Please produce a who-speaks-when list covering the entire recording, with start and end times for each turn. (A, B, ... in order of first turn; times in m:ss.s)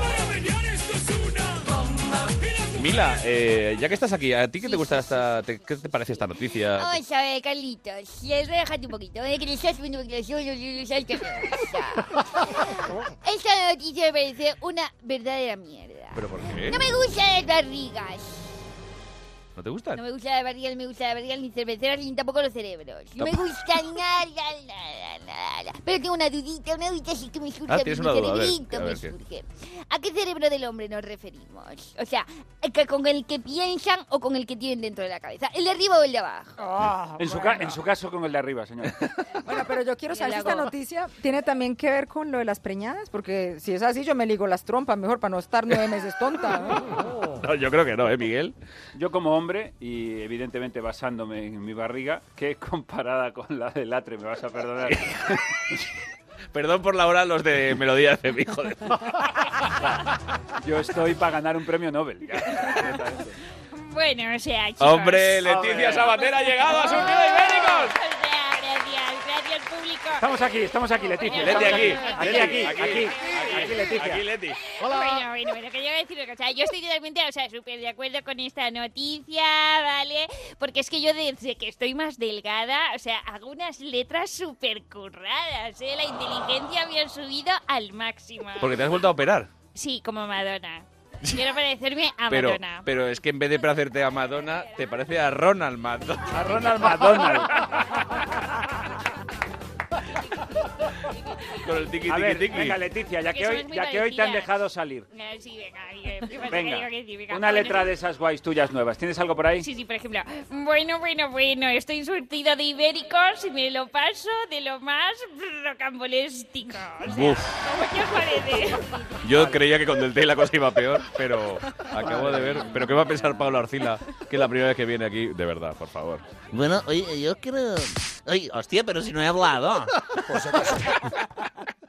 0:02.7-0:06.9 A
0:04.6-0:05.0 B
0:06.7-0:18.5 B
0:16.1-0:16.8 A
0:19.6-0:20.0 A
0:19.9-0:36.7 B
0:27.7-0:29.1 A
0:36.6-0:37.7 C
0:37.2-0:39.0 D
0:39.4-0:46.9 C
0:40.1-0:40.7 B
0:47.4-0:48.5 A
0:48.9-0:55.4 D
0:54.9-0:55.2 A
0:56.5-0:59.2 A
1:00.6-1:03.4 D
1:03.7-1:10.3 E
1:04.8-1:07.9 A
1:05.6-1:06.0 D
1:10.2-1:14.2 D
1:11.2-1:13.9 E
1:11.3-1:14.6 A
1:14.8-1:29.0 E
1:28.6-1:29.5 A
1:29.7-1:32.9 E
1:32.3-1:36.4 A
1:36.3-1:37.9 D
1:41.6-1:42.8 A
1:42.1-1:45.1 D
1:43.3-1:44.5 E
1:45.1-1:47.9 E
1:46.5-1:49.7 D
1:49.6-1:58.9 E
1:57.0-1:57.5 A
1:59.2-2:06.2 A
2:02.0-2:03.4 D
2:06.5-2:09.9 F
2:10.3-2:10.8 A